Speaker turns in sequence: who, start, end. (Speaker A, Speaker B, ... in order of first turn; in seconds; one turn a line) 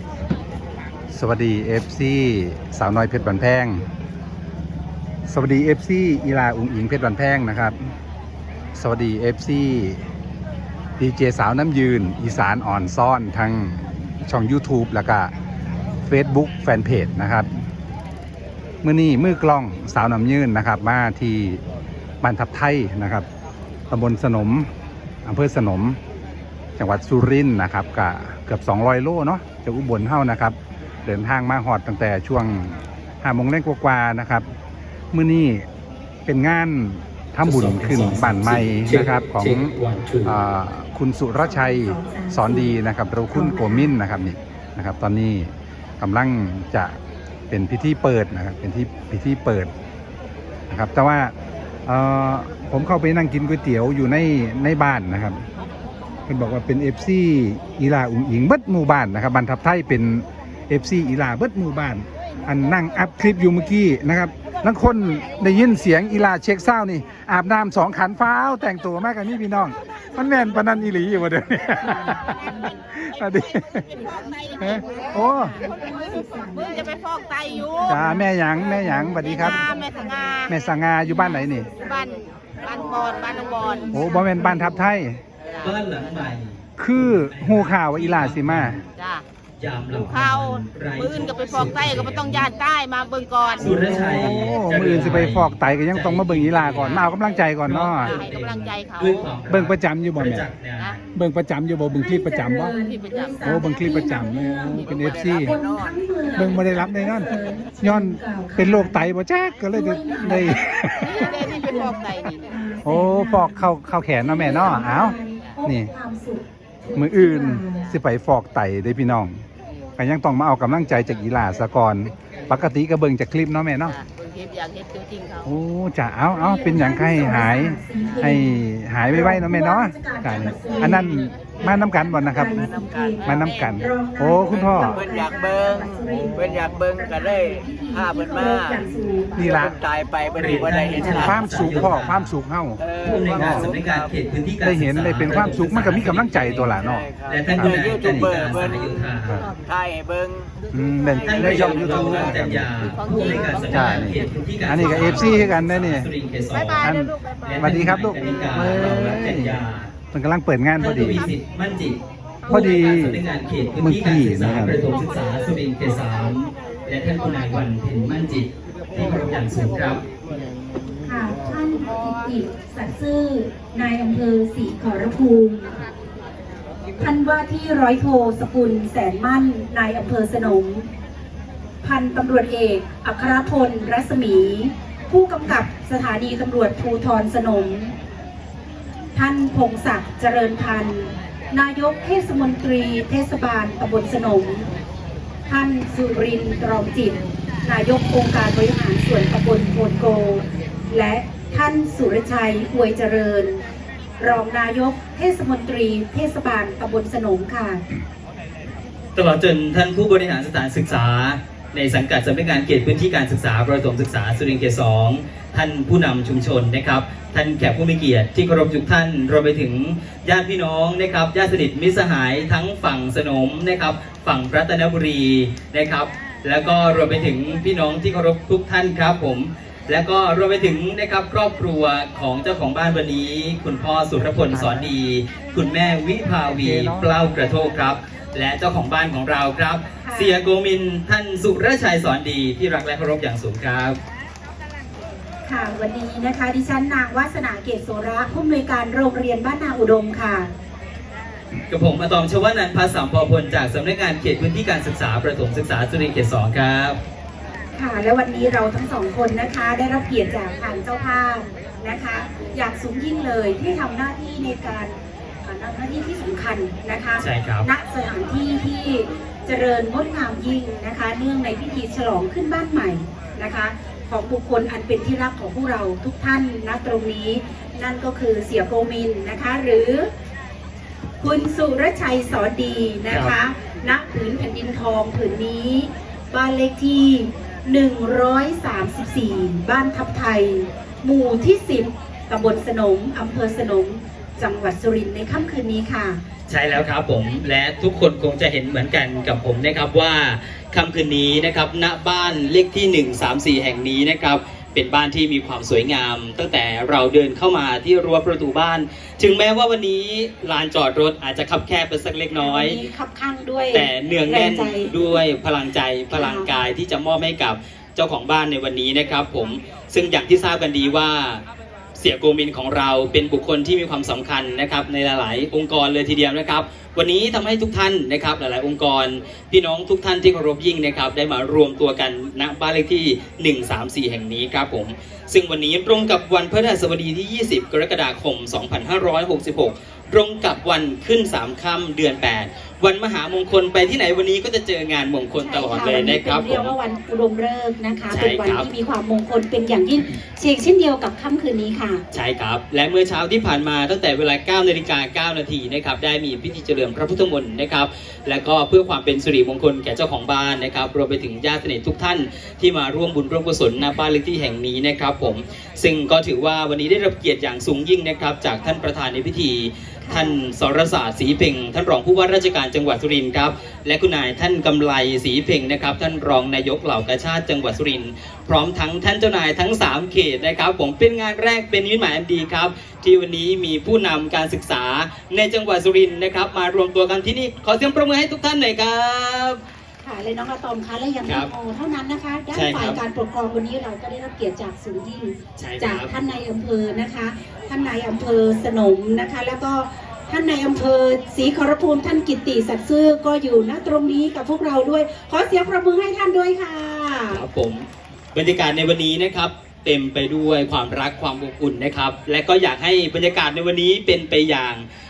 Speaker A: 1.1-3.8
Speaker A: 5.3-7.8
Speaker A: 8.8-10.1
Speaker A: 11.0-15.3
Speaker A: 16.1-17.5
Speaker A: 18.8-21.6
Speaker A: 22.2-23.3
Speaker A: 23.9-24.7
Speaker A: 25.2-26.0
Speaker A: 26.8-30.6
Speaker A: 31.1-34.5
Speaker A: 35.1-35.6
Speaker A: 36.3-39.7
Speaker B: 37.4-40.4
Speaker A: 40.2-47.0
Speaker C: 41.4-42.8
Speaker C: 43.3-43.9
Speaker A: 47.5-49.7
Speaker A: 50.7-51.3
Speaker A: 51.9-55.4
Speaker A: 56.3-73.9
Speaker C: 71.8-72.7
Speaker D: 73.1-75.2
Speaker A: 74.6-75.6
Speaker C: 74.8-84.9
Speaker D: 76.8-77.9
Speaker A: 77.9-79.7
Speaker D: 79.7-80.5
Speaker A: 80.5-81.7
Speaker D: 82.7-83.9
Speaker A: 83.9-85.2
Speaker B: 85.6-88.9
Speaker A: 86.8-88.8
Speaker B: 89.6-92.5
Speaker D: 89.9-93.7
Speaker B: 93.6-101.2
Speaker A: 93.6-98.2
Speaker D: 98.0-99.2
Speaker A: 99.5-100.5
Speaker A: 101.2-102.8
Speaker C: 101.9-109.1
Speaker D: 102.8-103.2
Speaker A: 103.4-105.5
Speaker E: 104.8-105.9
Speaker A: 106.3-107.3
Speaker A: 107.8-111.5
Speaker C: 109.7-110.6
Speaker C: 111.2-117.9
Speaker D: 111.2-112.4
Speaker A: 112.8-115.9
Speaker A: 117.0-119.4
Speaker A: 120.0-124.0
Speaker D: 124.2-125.4
Speaker A: 125.5-132.7
Speaker C: 126.4-139.6
Speaker E: 132.8-133.2
Speaker A: 133.2-135.0
Speaker D: 133.3-133.7
Speaker E: 134.8-135.8
Speaker E: 136.4-141.7
Speaker A: 139.3-139.8
Speaker B: 140.3-142.3
Speaker C: 140.9-141.3
Speaker A: 141.0-143.7
Speaker E: 142.8-144.1
Speaker B: 143.0-149.5
Speaker A: 144.6-148.4
Speaker E: 145.3-145.6
Speaker E: 146.8-149.0
Speaker E: 149.7-150.5
Speaker A: 150.7-153.0
Speaker E: 151.2-152.5
Speaker B: 151.2-156.9
Speaker D: 152.9-154.2
Speaker A: 153.7-156.1
Speaker D: 154.9-155.5
Speaker D: 156.6-158.0
Speaker A: 156.8-159.6
Speaker B: 157.5-159.9
Speaker A: 160.1-161.3
Speaker B: 160.8-170.0
Speaker A: 162.5-163.2
Speaker A: 163.8-164.8
Speaker C: 171.1-175.7
Speaker C: 177.0-180.9
Speaker C: 181.8-187.9
Speaker C: 189.2-194.7
Speaker C: 195.5-203.6
Speaker C: 204.2-207.8
Speaker B: 209.2-244.0
Speaker A: 236.5-237.1
Speaker C: 240.0-240.4
Speaker C: 245.5-250.5
Speaker B: 251.7-257.0
Speaker C: 257.8-280.1
Speaker B: 267.2-267.7
Speaker C: 281.2-296.2
Speaker B: 296.5-312.8
Speaker C: 312.3-314.9
Speaker B: 313.7-321.4
Speaker C: 316.1-316.5
Speaker B: 322.0-346.7
Speaker C: 345.4-352.0
Speaker B: 348.1-348.7
Speaker B: 352.1-389.6
Speaker C: 370.0-370.4
Speaker C: 390.0-407.4
Speaker B: 392.5-393.0
Speaker B: 395.6-396.1
Speaker B: 407.3-414.9